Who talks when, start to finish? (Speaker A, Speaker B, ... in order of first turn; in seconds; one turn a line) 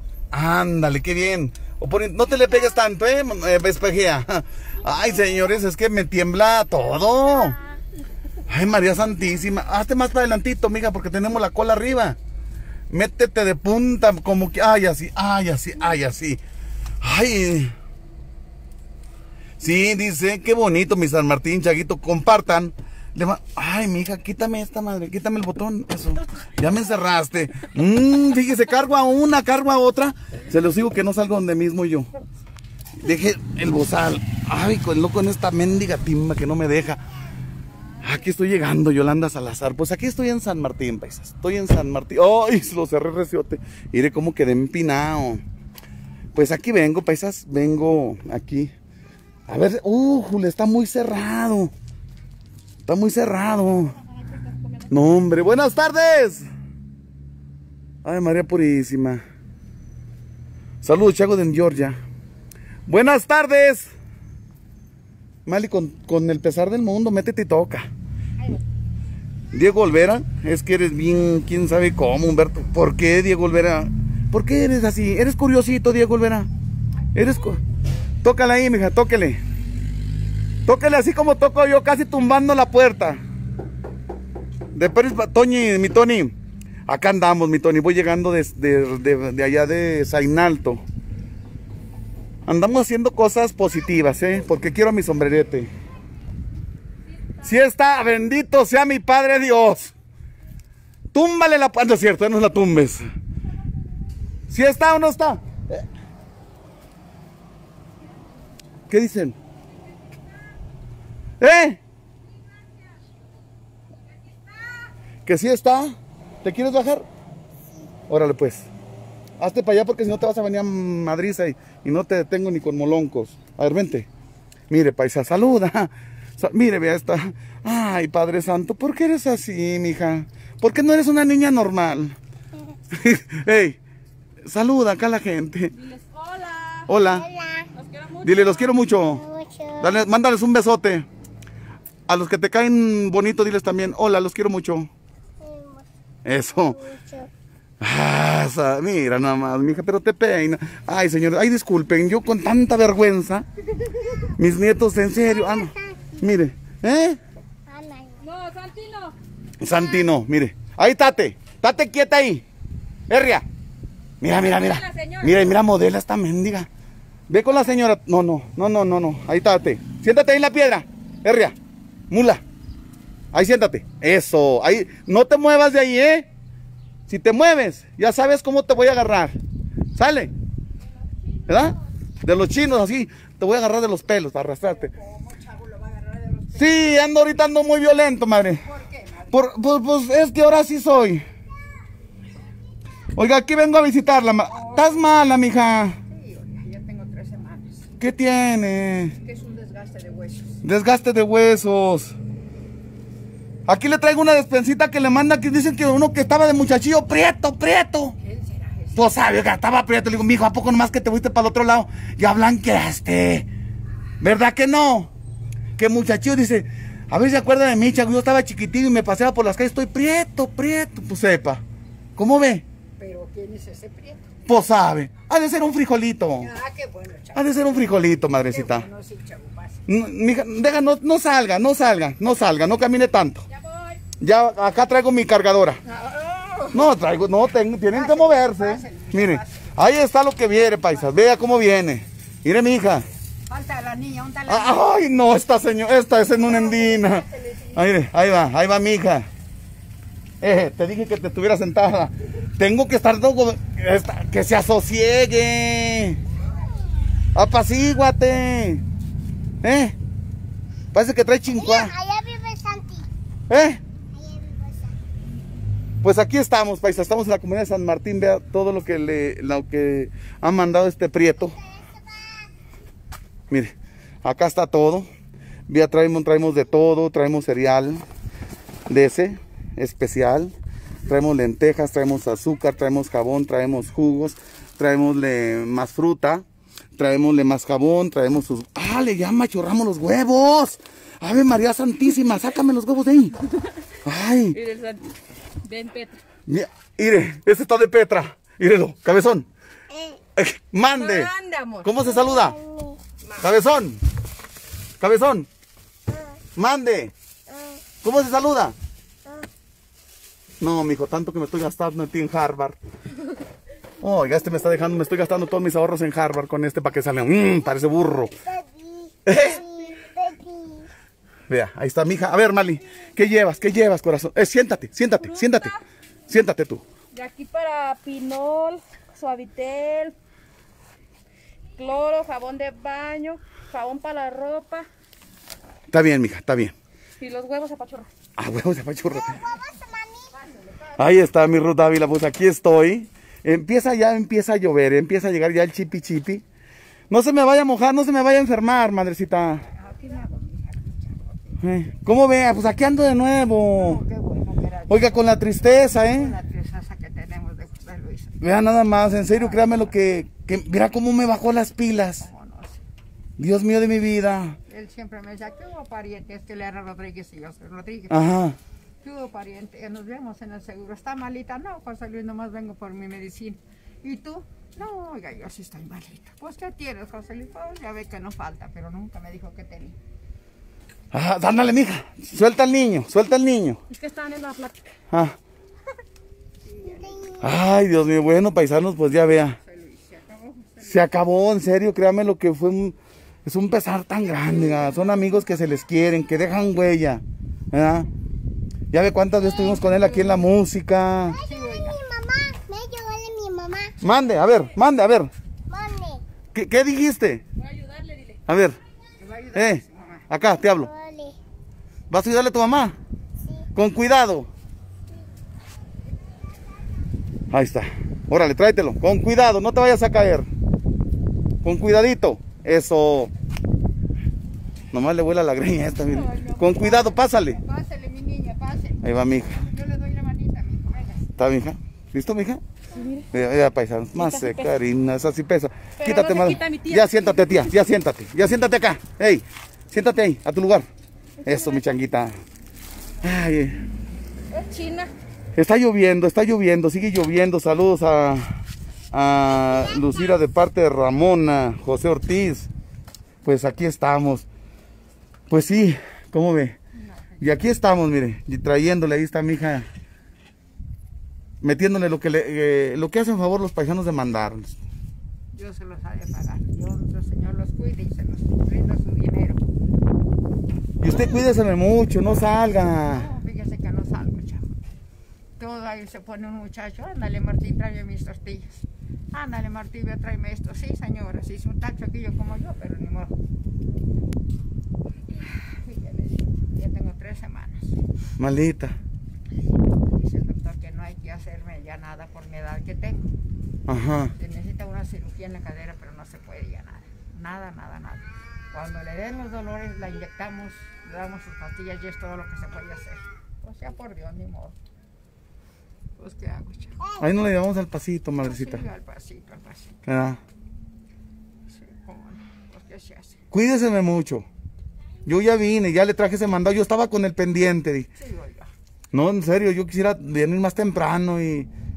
Speaker A: 0.3-7.6
Speaker A: 8.5-12.2
Speaker A: 12.9-16.4
Speaker A: 17.0-17.7
Speaker A: 19.6-32.1
Speaker A: 33.0-37.0
Speaker A: 38.0-45.4
Speaker A: 46.3-48.7
Speaker A: 49.5-51.7
Speaker A: 52.9-54.0
Speaker A: 54.9-56.5
Speaker A: 58.0-59.2
Speaker A: 60.8-62.0
Speaker A: 62.9-63.9
Speaker A: 65.5-67.9
Speaker A: 69.5-76.5
Speaker A: 77.1-77.6
Speaker A: 78.2-79.4
Speaker A: 80.7-83.2
Speaker A: 84.7-86.3
Speaker A: 86.9-90.8
Speaker A: 92.5-95.7
Speaker A: 97.4-99.9
Speaker A: 101.1-103.1
Speaker A: 104.5-105.8
Speaker A: 108.9-109.3
Speaker A: 111.4-111.8
Speaker A: 115.2-117.0
Speaker A: 118.1-118.7
Speaker A: 119.4-124.1
Speaker A: 124.7-132.2
Speaker A: 132.9-133.8
Speaker A: 134.4-135.7
Speaker B: 135.8-136.9
Speaker A: 136.9-137.3
Speaker C: 137.0-137.7
Speaker B: 137.7-138.8
Speaker A: 138.2-141.1
Speaker C: 139.2-139.9
Speaker A: 142.1-144.9
Speaker C: 145.4-145.8
Speaker A: 146.2-146.9
Speaker C: 146.8-147.3
Speaker A: 147.8-153.4
Speaker A: 154.4-157.2
Speaker C: 155.5-156.1
Speaker C: 157.7-158.3
Speaker B: 158.2-159.2
Speaker A: 159.6-162.4
Speaker A: 163.1-163.4
Speaker A: 164.2-166.7
Speaker B: 164.5-165.4
Speaker A: 167.3-171.5
Speaker A: 172.1-172.4
Speaker A: 173.3-176.3
Speaker A: 177.1-179.3
Speaker A: 179.9-180.3
Speaker A: 181.5-184.9
Speaker D: 184.7-187.1
Speaker A: 186.5-188.7
Speaker D: 188.6-189.4
Speaker A: 189.3-191.2
Speaker A: 193.2-196.0
Speaker D: 194.5-195.1
Speaker D: 196.1-197.9
Speaker A: 198.0-199.1
Speaker D: 199.2-200.6
Speaker A: 200.6-202.1
Speaker A: 203.7-208.2
Speaker D: 208.2-209.3
Speaker A: 208.9-213.5
Speaker A: 214.2-215.1
Speaker A: 215.8-221.6
Speaker A: 222.2-222.6
Speaker D: 223.0-224.3
Speaker A: 224.4-226.5
Speaker D: 226.4-229.8
Speaker A: 227.3-228.9
Speaker A: 229.9-233.4
Speaker B: 233.5-233.9
Speaker A: 234.2-235.8
Speaker D: 235.8-236.9
Speaker A: 236.7-243.1
Speaker D: 237.9-240.0
Speaker D: 240.8-241.2
Speaker D: 243.5-245.0
Speaker A: 244.5-249.3
Speaker D: 246.2-247.9
Speaker A: 250.4-256.2
Speaker A: 257.3-258.8
Speaker A: 259.6-259.9
Speaker A: 260.9-261.9
Speaker C: 261.6-263.1
Speaker A: 263.5-263.8
Speaker C: 264.1-264.9
Speaker A: 266.0-271.6
Speaker A: 273.5-275.1
Speaker A: 275.7-278.0
Speaker A: 278.9-280.5
Speaker A: 281.1-286.4
Speaker A: 287.0-293.4
Speaker A: 294.0-294.6
Speaker B: 294.5-295.1
Speaker B: 295.6-296.2
Speaker A: 296.5-299.5
Speaker A: 300.4-302.6
Speaker B: 300.9-301.9
Speaker C: 302.3-303.0
Speaker A: 303.4-304.0
Speaker A: 305.0-305.5
Speaker A: 306.6-307.1
Speaker A: 308.0-308.7
Speaker A: 310.6-312.8
Speaker A: 314.0-318.4
Speaker C: 318.5-320.9
Speaker A: 319.2-319.6
Speaker A: 321.5-325.8
Speaker B: 325.2-325.8
Speaker A: 326.3-326.8
Speaker B: 327.1-330.1
Speaker B: 331.8-334.9
Speaker A: 335.9-336.7
Speaker B: 337.2-338.1
Speaker A: 338.4-339.4
Speaker C: 339.3-340.4
Speaker D: 340.4-341.0
Speaker A: 341.0-346.4
Speaker A: 347.1-349.6
Speaker D: 349.6-351.6
Speaker A: 351.6-354.0
Speaker D: 353.7-358.4
Speaker A: 354.9-356.4
Speaker A: 358.4-362.3
Speaker D: 359.0-359.9
Speaker D: 362.0-362.9
Speaker A: 363.4-364.6
Speaker D: 364.7-368.2
Speaker A: 368.1-368.6
Speaker D: 369.0-380.0
Speaker A: 381.1-383.8
Speaker B: 383.9-384.9
Speaker A: 385.1-385.4
Speaker D: 386.6-387.3
Speaker A: 387.4-389.6
Speaker D: 389.6-390.9
Speaker A: 390.8-398.1
Speaker D: 394.8-395.2
Speaker A: 398.9-401.4
Speaker D: 399.7-400.4
Speaker C: 401.3-403.9
Speaker D: 401.4-402.0
Speaker A: 404.0-405.3
Speaker C: 405.7-406.2
Speaker A: 406.5-407.4
Speaker B: 407.6-408.4
Speaker A: 408.5-408.8
Speaker D: 409.2-410.2
Speaker A: 409.5-410.9
Speaker C: 410.8-411.4
Speaker A: 412.1-413.0
Speaker A: 413.7-414.5
Speaker A: 417.5-420.5
Speaker A: 421.6-423.3
Speaker A: 424.9-427.6
Speaker B: 426.1-426.8
Speaker D: 426.2-431.3
Speaker A: 429.0-429.6
Speaker A: 431.4-432.6
Speaker B: 432.9-433.3
Speaker A: 433.3-440.9
Speaker B: 434.2-434.7
Speaker B: 436.0-437.5
Speaker B: 441.4-441.8
Speaker A: 441.4-442.4
Speaker A: 443.2-443.8
Speaker B: 444.5-445.1
Speaker A: 445.6-448.6
Speaker A: 449.1-452.7
Speaker A: 453.4-454.5
Speaker A: 455.5-456.8
Speaker A: 457.4-459.9
Speaker A: 461.6-464.8
Speaker D: 465.5-469.6
Speaker A: 471.0-473.3
Speaker D: 473.0-474.8
Speaker D: 475.6-483.4
Speaker D: 485.3-488.0
Speaker A: 488.4-489.0
Speaker D: 489.9-493.3
Speaker A: 493.9-494.3
Speaker D: 494.3-504.8
Speaker D: 506.1-507.0
Speaker A: 507.2-508.8
Speaker D: 508.4-510.0
Speaker A: 510.1-510.4
Speaker D: 511.7-513.4
Speaker A: 513.5-514.5
Speaker A: 515.2-518.1
Speaker D: 518.1-518.7
Speaker A: 519.1-521.7